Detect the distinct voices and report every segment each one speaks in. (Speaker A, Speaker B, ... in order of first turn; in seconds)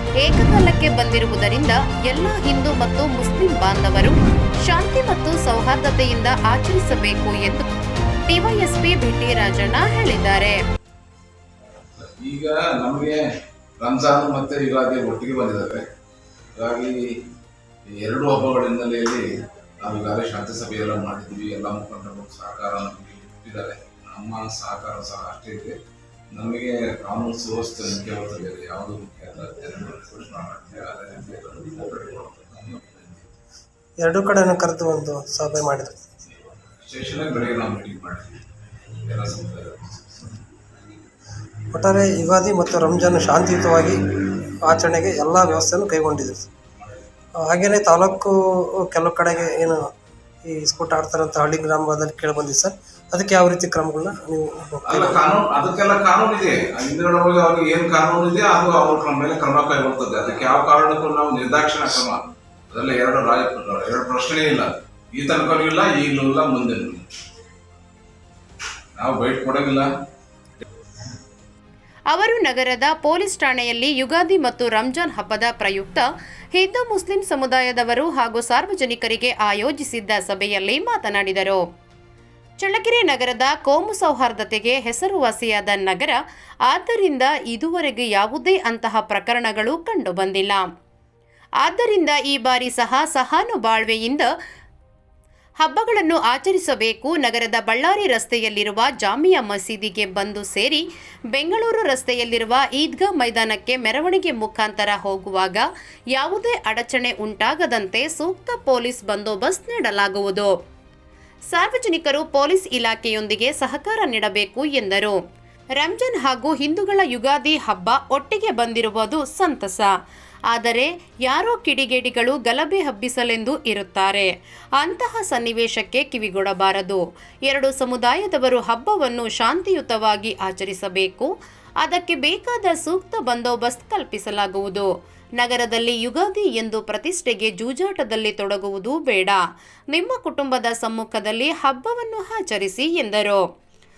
Speaker A: 0.2-7.7, 8.3-10.6, 72.1-81.6, 82.6-90.7, 91.6-94.3, 95.6-110.5, 111.5-115.2, 115.8-119.9, 120.5-131.3, 131.8-143.4
Speaker B: 12.0-13.2, 13.8-15.9, 16.5-17.2, 17.9-19.2, 19.8-25.8, 26.3-33.3, 36.8-38.4, 39.0-40.4, 54.8-67.1, 69.0-69.9
Speaker C: 34.0-36.1, 41.7-44.0, 44.6-46.5, 47.4-49.9, 50.5-55.2